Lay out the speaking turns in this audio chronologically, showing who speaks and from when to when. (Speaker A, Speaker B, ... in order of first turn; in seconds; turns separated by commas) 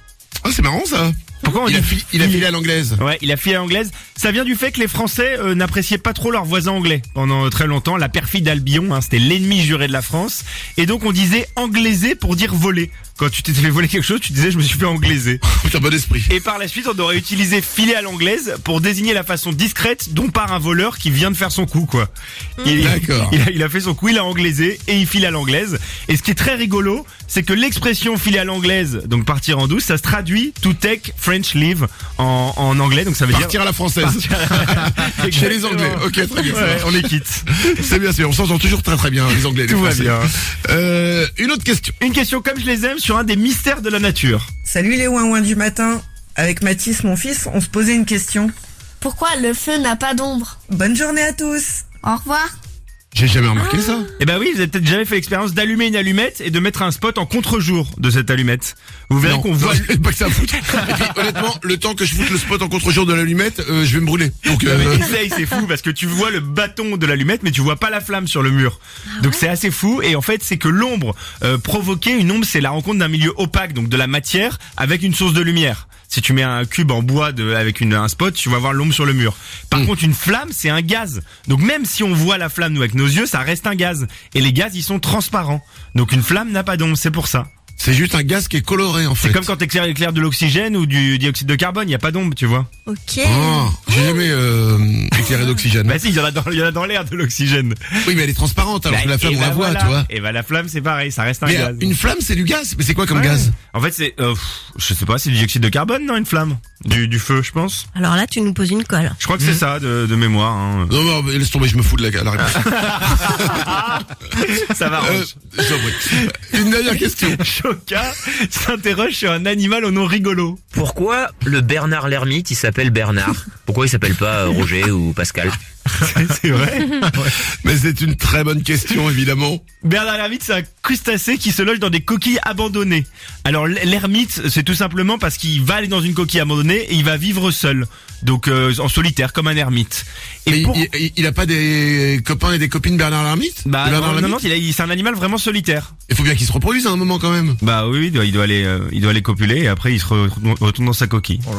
Speaker A: 0.4-3.0, Speaker B: 1.4-15.4, Speaker A: 15.4-16.3, Speaker B: 16.3-22.1, Speaker B: 22.6-37.5, Speaker A: 22.7-23.4, Speaker A: 33.3-42.0, Speaker B: 39.6-40.3, Speaker B: 42.0-44.5, Speaker C: 44.7-48.5, Speaker D: 49.0-50.6, Speaker C: 50.7-51.8, Speaker D: 52.0-52.5, Speaker A: 53.1-54.1, Speaker B: 54.2-61.4, Speaker A: 59.2-65.1, Speaker B: 64.5-87.5, Speaker E: 69.2-69.4, Speaker A: 87.8-89.5, Speaker B: 89.2-92.7, Speaker E: 92.9-94.1, Speaker A: 93.2-96.0, Speaker B: 95.8-98.0, Speaker A: 98.0-100.1, Speaker B: 98.9-102.0, Speaker A: 101.4-103.5, Speaker B: 103.1-107.9, Speaker E: 108.0-109.2, Speaker B: 109.2-110.9, Speaker A: 110.9-113.7, Speaker B: 112.4-120.6, Speaker A: 115.0-117.4, Speaker F: 120.7-125.6, Speaker B: 125.9-127.3, Speaker A: 127.2-129.6, Speaker B: 129.8-140.9, Speaker A: 140.5-144.4, Speaker B: 143.7-145.9, Speaker A: 146.1-147.6, Speaker B: 147.6-151.4